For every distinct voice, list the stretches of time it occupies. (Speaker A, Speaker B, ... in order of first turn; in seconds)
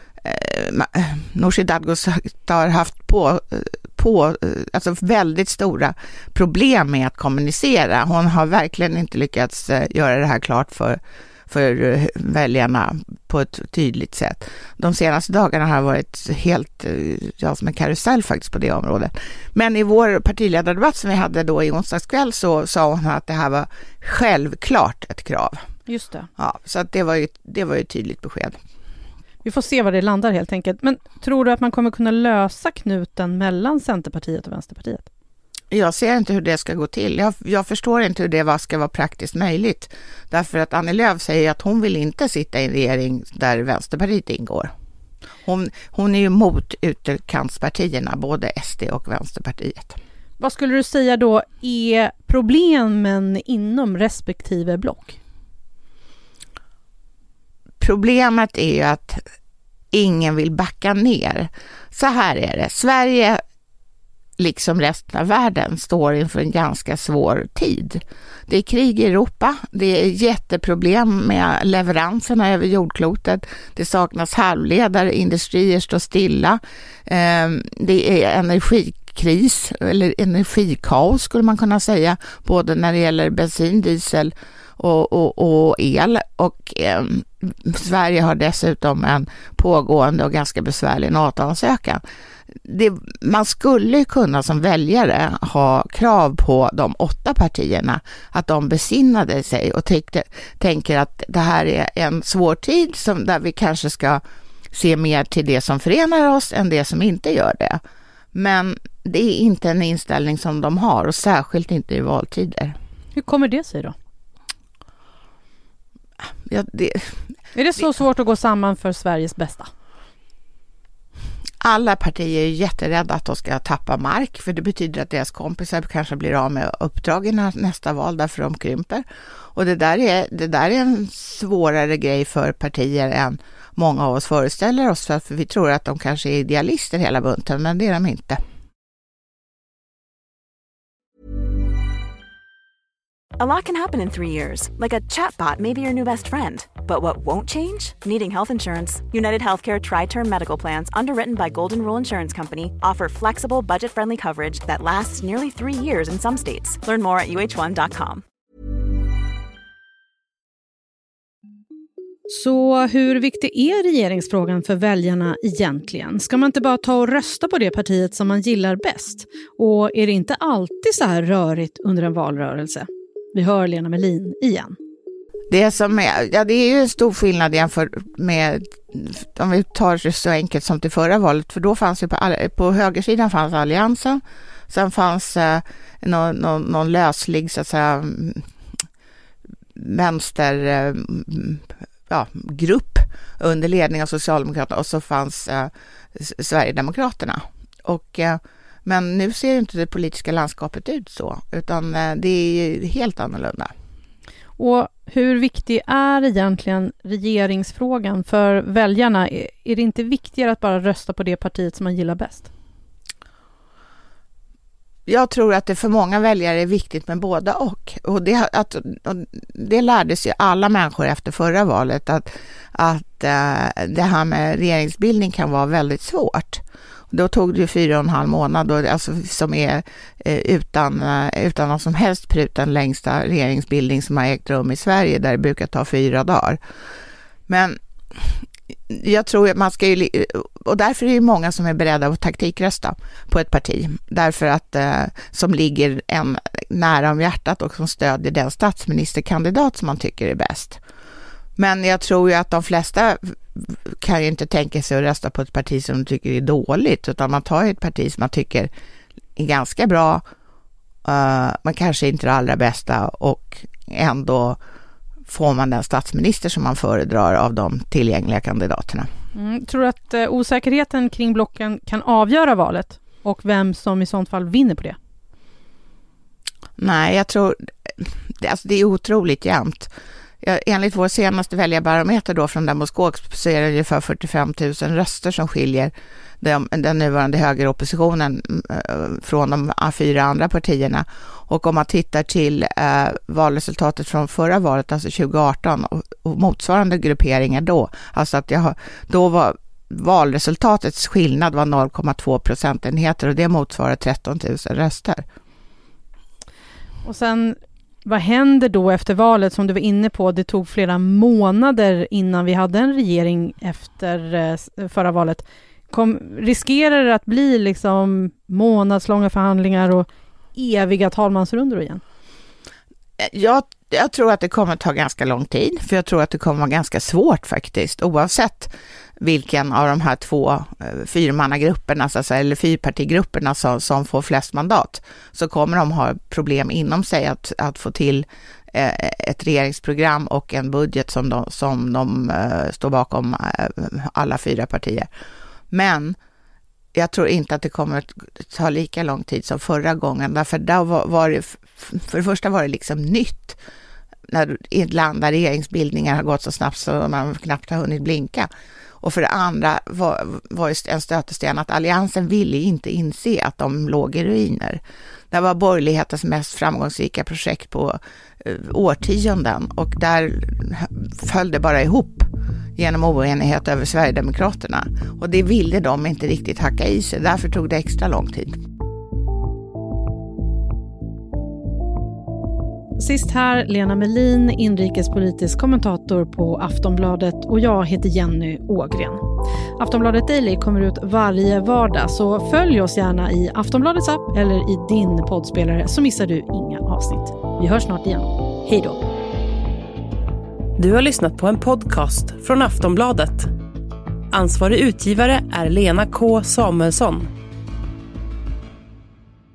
Speaker A: 0.2-25.6, 26.4-28.6, 35.7-44.7, 45.5-50.0, 57.8-59.2, 59.9-63.4, 64.4-92.0, 92.7-107.8, 108.3-112.8, 116.5-117.2, 121.6-138.4, 175.5-188.4, 189.8-203.7, 215.1-236.6, 237.5-238.3, 238.9-250.8, 251.6-258.7, 259.4-260.2, 261.1-264.6, 265.3-269.1, 276.8-279.9, 280.4-305.2, 323.2-345.1, 345.7-346.2, 346.9-353.6, 354.3-358.5, 359.0-378.6
Speaker B: 25.9-26.3, 29.4-35.1, 50.4-55.2, 113.2-114.0, 117.5-119.7, 162.3-174.8, 204.6-212.5, 269.4-275.0, 307.0-322.0, 383.0-389.2, 389.8-399.0
Speaker C: 143.4-158.2
Speaker D: 400.8-403.5, 404.3-407.3